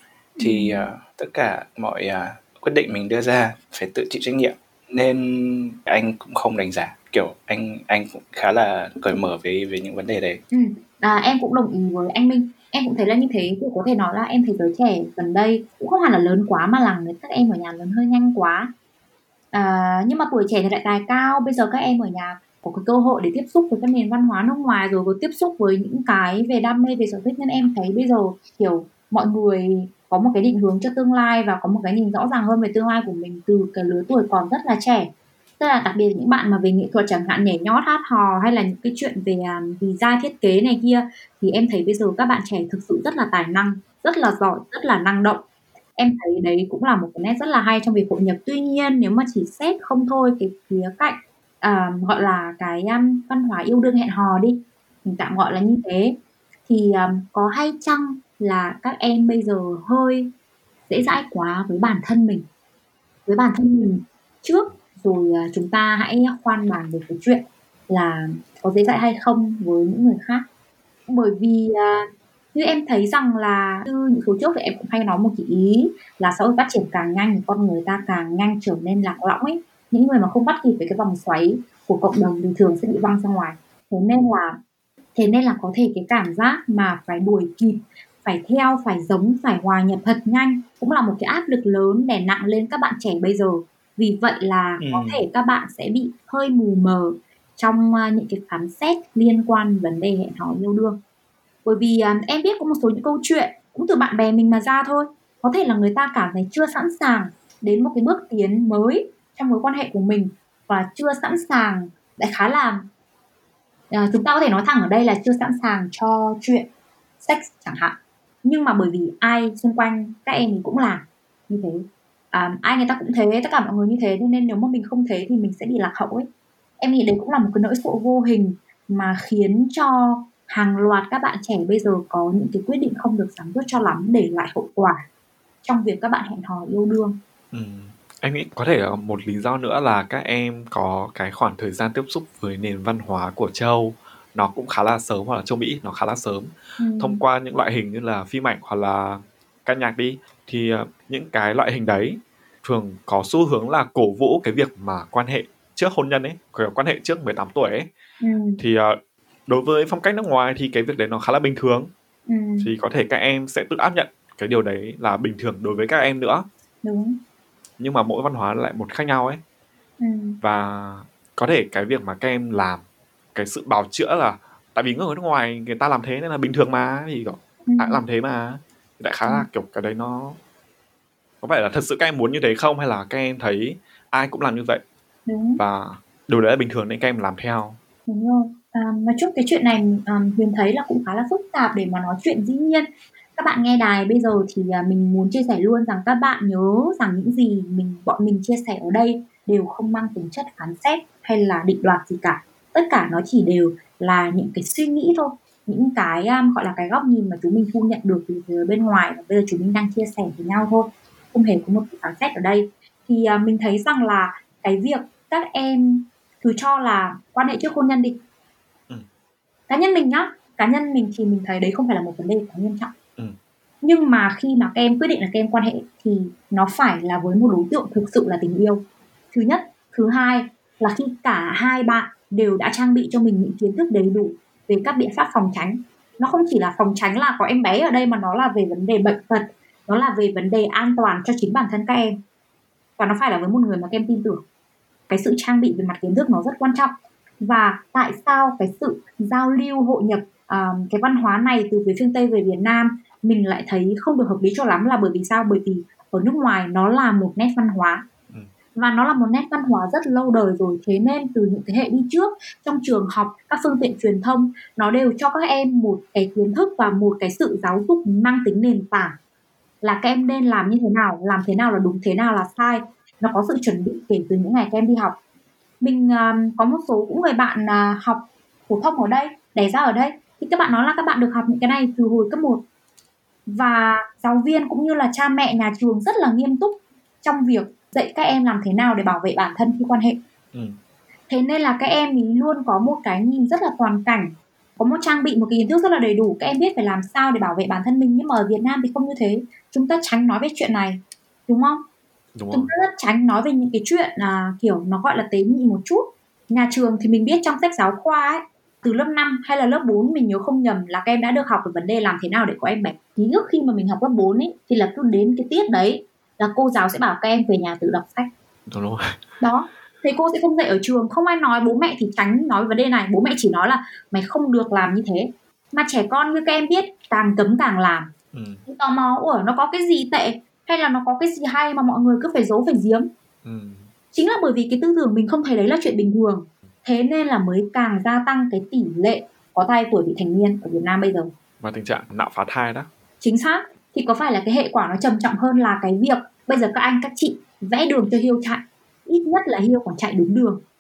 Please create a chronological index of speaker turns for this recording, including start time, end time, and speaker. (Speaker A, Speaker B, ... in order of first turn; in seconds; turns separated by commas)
Speaker A: 0.4-0.9, Speaker B: 0.4-10.4, Speaker A: 10.5-18.7, Speaker A: 19.5-35.1, Speaker A: 35.6-45.4, Speaker A: 46.0-56.2, Speaker A: 56.7-60.3, Speaker A: 60.9-62.5, Speaker A: 63.3-70.5, Speaker A: 71.1-84.6, Speaker A: 85.2-101.0, Speaker B: 94.8-95.2, Speaker A: 101.7-112.8, Speaker A: 113.9-116.7, Speaker A: 117.2-126.3, Speaker A: 126.8-135.0, Speaker A: 135.6-137.2, Speaker C: 137.5-157.9, Speaker A: 146.8-147.2, Speaker A: 158.2-158.6, Speaker C: 158.6-161.9, Speaker A: 162.3-162.7, Speaker C: 162.6-166.4, Speaker A: 166.8-167.2, Speaker C: 167.8-169.4, Speaker A: 170.0-170.4, Speaker C: 170.4-172.8, Speaker C: 173.3-180.4, Speaker A: 177.7-178.0, Speaker C: 181.4-184.8, Speaker A: 185.3-185.6, Speaker C: 185.6-187.8, Speaker A: 188.1-218.2, Speaker A: 219.7-222.9, Speaker A: 223.8-242.2, Speaker A: 243.0-244.4, Speaker A: 245.1-258.0, Speaker A: 258.8-269.1, Speaker A: 269.8-275.2, Speaker A: 275.8-282.6, Speaker A: 283.5-290.2, Speaker A: 291.3-301.8, Speaker C: 302.4-302.7, Speaker A: 302.5-318.3, Speaker C: 318.7-319.2, Speaker A: 319.4-328.1, Speaker C: 328.3-328.6, Speaker A: 328.7-333.1, Speaker C: 333.4-333.9, Speaker A: 334.1-341.3, Speaker C: 341.6-342.9, Speaker A: 343.2-350.6